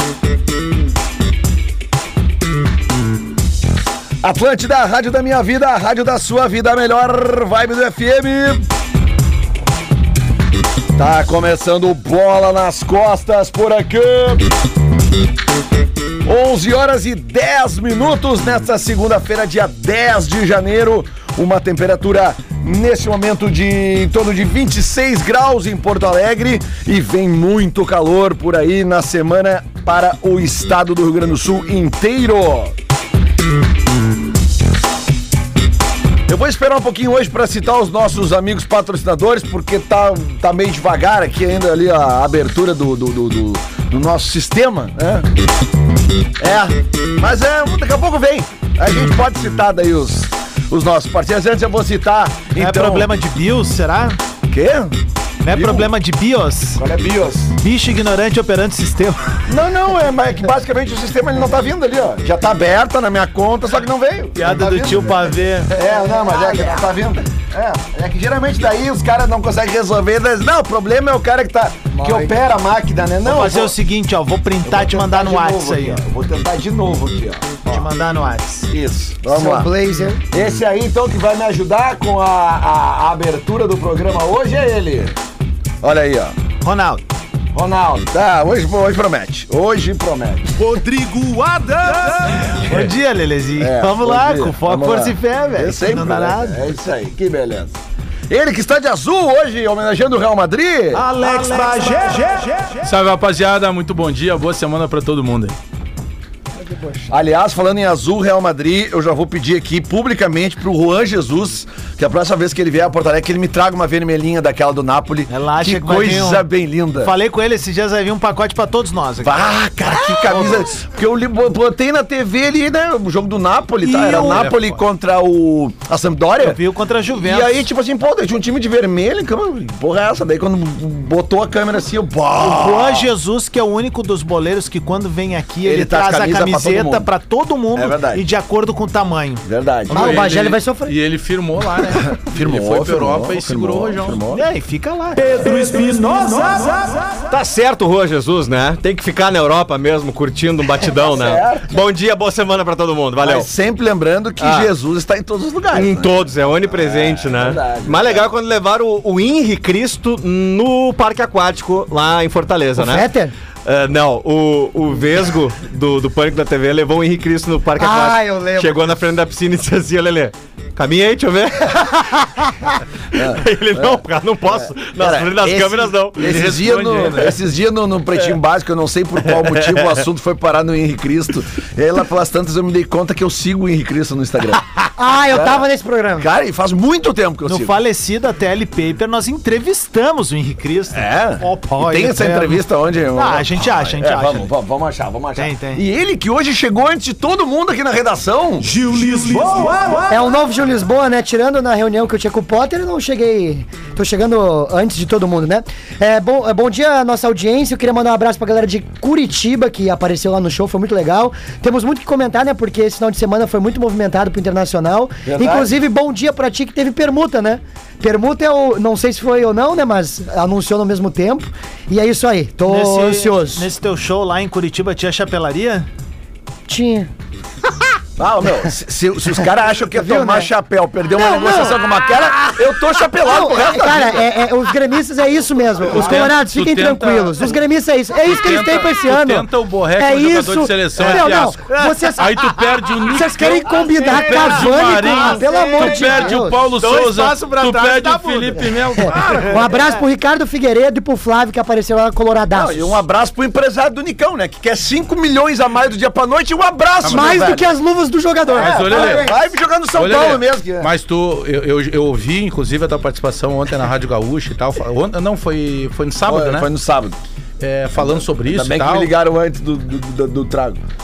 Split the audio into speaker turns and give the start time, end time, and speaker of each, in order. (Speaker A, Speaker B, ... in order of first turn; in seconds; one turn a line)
Speaker A: 4.2-8.7
Speaker A: 10.9-14.5
Speaker A: 16.2-32.7
Speaker A: 36.3-45.3
Speaker A: 46.4-53.1
Speaker B: 52.5-54.2
Speaker A: 54.5-54.9
Speaker B: 55.4-56.8
Speaker A: 55.5-55.9
Speaker A: 56.8-57.5
Speaker B: 57.6-59.4
Speaker A: 59.5-73.7
Speaker B: 64.4-65.7
Speaker C: 65.8-66.8
Speaker C: 72.0-72.3
Speaker B: 73.2-76.0
Speaker A: 74.6-77.9
Speaker B: 77.6-78.7
Speaker A: 78.7-79.7
Speaker C: 79.3-80.2
Speaker A: 80.3-85.2
Speaker A: 85.8-86.4
Speaker B: 86.6-87.0
Speaker A: 87.5-90.5
Speaker B: 90.6-96.7
Speaker A: 93.6-97.8
Speaker A: 98.3-101.1
Speaker B: 100.9-102.8
Speaker D: 102.8-105.5
Speaker C: 106.7-107.0
Speaker A: 107.1-117.1
Speaker B: 115.3-116.5
Speaker B: 117.0-119.4
Speaker A: 119.2-126.6
Speaker B: 120.1-120.5
Speaker B: 123.8-124.5
Speaker D: 124.2-124.8
Speaker B: 126.4-127.6
Speaker A: 127.2-133.1
Speaker B: 132.4-139.4
Speaker A: 135.6-137.1
Speaker A: 137.7-138.2
Speaker A: 139.4-140.3
Speaker D: 139.9-144.2
Speaker C: 139.9-140.9
Speaker A: 141.9-144.4
Speaker B: 144.3-147.1
Speaker E: 147.3-153.5
Speaker A: 151.0-151.8
Speaker A: 153.2-158.3
Speaker E: 154.4-154.7
Speaker E: 155.7-163.1
Speaker C: 162.8-163.3
Speaker E: 163.6-172.5
Speaker C: 167.8-168.8
Speaker A: 173.1-184.7
Speaker E: 173.1-176.4
Speaker D: 176.2-177.3
Speaker E: 179.3-179.9
Speaker C: 185.0-186.3
Speaker A: 185.3-185.7
Speaker A: 186.2-187.7
Speaker B: 187.4-192.6
Speaker A: 190.9-198.8
Speaker B: 193.1-194.5
Speaker B: 195.3-195.8
Speaker B: 198.7-200.2
Speaker C: 200.1-223.7
Speaker A: 215.2-215.7
Speaker B: 222.6-225.8
Speaker C: 226.7-227.1
Speaker A: 228.2-234.3
Speaker C: 229.9-230.5
Speaker C: 231.1-232.6
Speaker C: 233.2-242.4
Speaker A: 235.8-236.3
Speaker D: 235.9-237.6
Speaker D: 238.2-249.9
Speaker B: 241.0-243.1
Speaker C: 243.1-246.6
Speaker B: 243.7-249.6
Speaker C: 249.0-253.0
Speaker A: 252.5-257.7
Speaker D: 257.0-257.7
Speaker C: 257.1-259.4
Speaker A: 258.5-260.9
Speaker D: 258.5-259.3
Speaker D: 259.9-266.7
Speaker A: 266.2-267.2
Speaker D: 267.6-269.1
Speaker A: 267.9-270.8